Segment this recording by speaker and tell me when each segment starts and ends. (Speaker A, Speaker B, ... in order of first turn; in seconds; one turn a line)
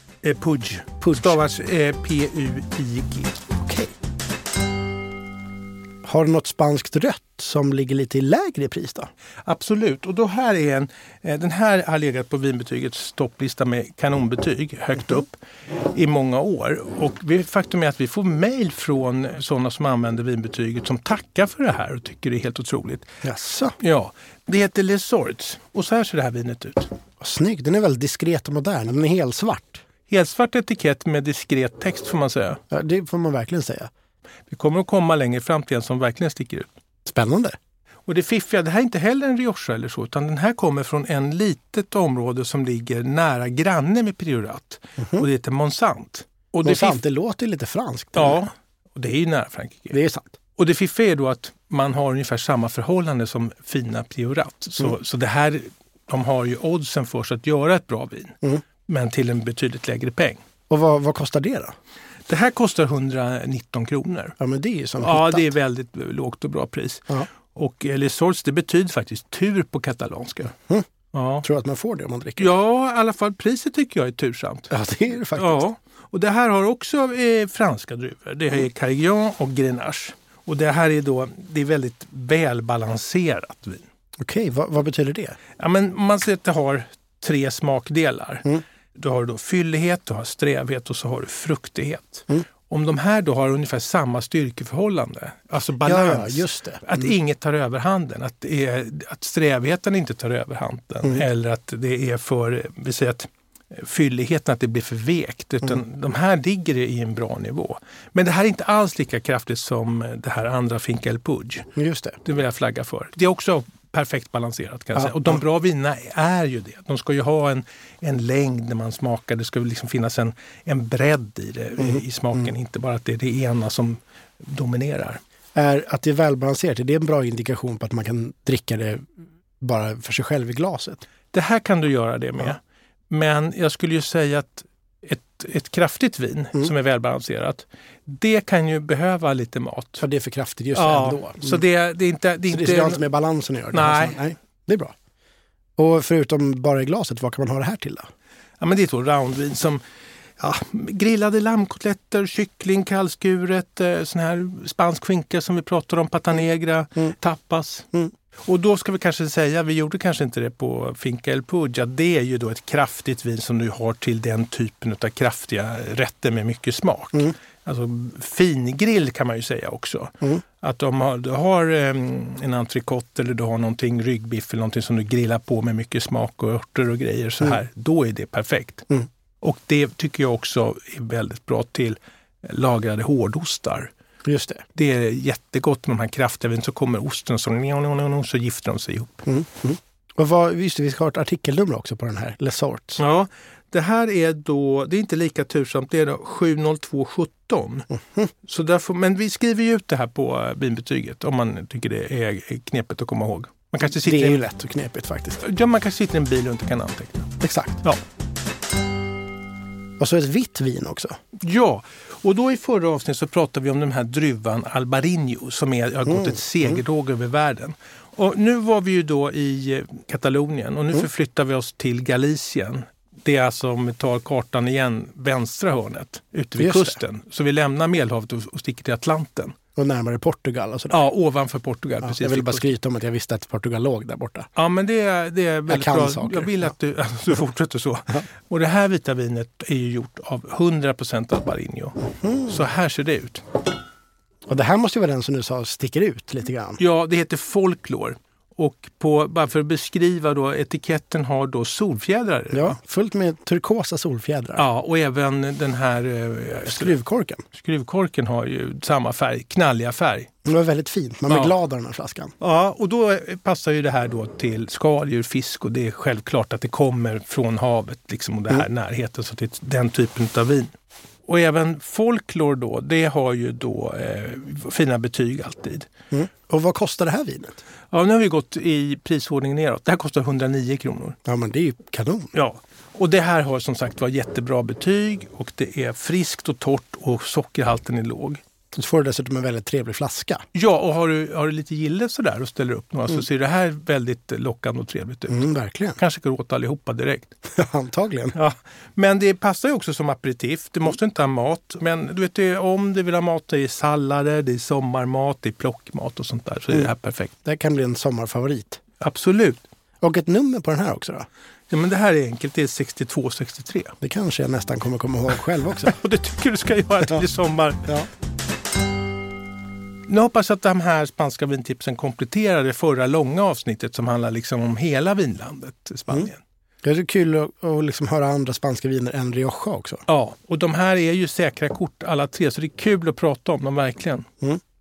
Speaker A: 0.2-3.4
Speaker B: 1.1-1.3
Speaker B: 3.6-3.9
Speaker B: 6.0-9.1
Speaker A: 9.4-23.1
Speaker B: 23.2-23.8
Speaker A: 23.8-26.9
Speaker B: 27.2-29.8
Speaker A: 30.1-32.6
Speaker B: 32.7-33.9
Speaker A: 34.5-36.7
Speaker B: 37.0-37.5
Speaker A: 38.1-47.0
Speaker B: 45.0-45.2
Speaker B: 46.6-48.4
Speaker A: 48.1-50.0
Speaker B: 49.9-50.4
Speaker A: 50.6-60.4
Speaker B: 60.7-61.7
Speaker A: 62.3-64.3
Speaker B: 64.4-65.5
Speaker A: 65.0-70.5
Speaker A: 71.1-71.5
Speaker B: 71.4-72.5
Speaker A: 72.4-74.7
Speaker B: 74.7-75.6
Speaker A: 75.3-83.8
Speaker B: 84.2-85.4
Speaker A: 85.6-111.7
Speaker B: 95.8-97.1
Speaker B: 111.8-112.2
Speaker A: 112.2-125.2
Speaker B: 115.0-115.4
Speaker B: 121.8-122.4
Speaker B: 125.5-129.0
Speaker B: 129.6-131.0
Speaker A: 131.3-140.0
Speaker B: 140.0-141.6
Speaker A: 140.7-143.0
Speaker B: 142.5-144.9
Speaker A: 143.7-144.2
Speaker B: 145.8-148.0
Speaker A: 148.6-149.8
Speaker A: 150.4-157.9
Speaker A: 158.4-178.9
Speaker A: 179.4-183.9
Speaker B: 184.2-184.6
Speaker A: 184.7-189.2
Speaker B: 189.3-193.0
Speaker A: 193.0-197.9
Speaker B: 197.9-198.3
Speaker A: 198.4-204.4
Speaker B: 203.8-205.4
Speaker A: 205.4-207.3
Speaker B: 207.4-207.8
Speaker B: 210.0-211.2
Speaker A: 211.4-229.6
Speaker B: 216.1-216.8
Speaker B: 226.6-227.0
Speaker B: 229.8-231.0
Speaker A: 230.9-232.6
Speaker B: 232.0-234.5
Speaker A: 234.6-243.4
Speaker B: 235.7-236.7
Speaker B: 242.2-242.6
Speaker B: 244.5-246.8
Speaker A: 246.8-252.8
Speaker B: 252.5-254.6
Speaker A: 254.6-256.9
Speaker B: 256.6-257.4
Speaker A: 257.5-260.3
Speaker B: 260.4-262.3
Speaker A: 261.3-261.5
Speaker A: 262.4-270.7
Speaker A: 271.2-275.9
Speaker B: 276.1-277.6
Speaker A: 277.9-281.2
Speaker B: 281.2-282.3
Speaker A: 282.3-288.4
Speaker B: 288.7-290.4
Speaker A: 290.5-297.3
Speaker B: 295.3-296.0
Speaker B: 297.5-298.3
Speaker A: 298.3-307.3
Speaker B: 307.4-308.8
Speaker A: 309.0-309.6
Speaker B: 310.0-311.3
Speaker A: 311.7-313.9
Speaker B: 314.0-316.0
Speaker A: 315.8-317.9
Speaker A: 320.1-326.4
Speaker B: 326.8-330.0
Speaker A: 330.1-334.3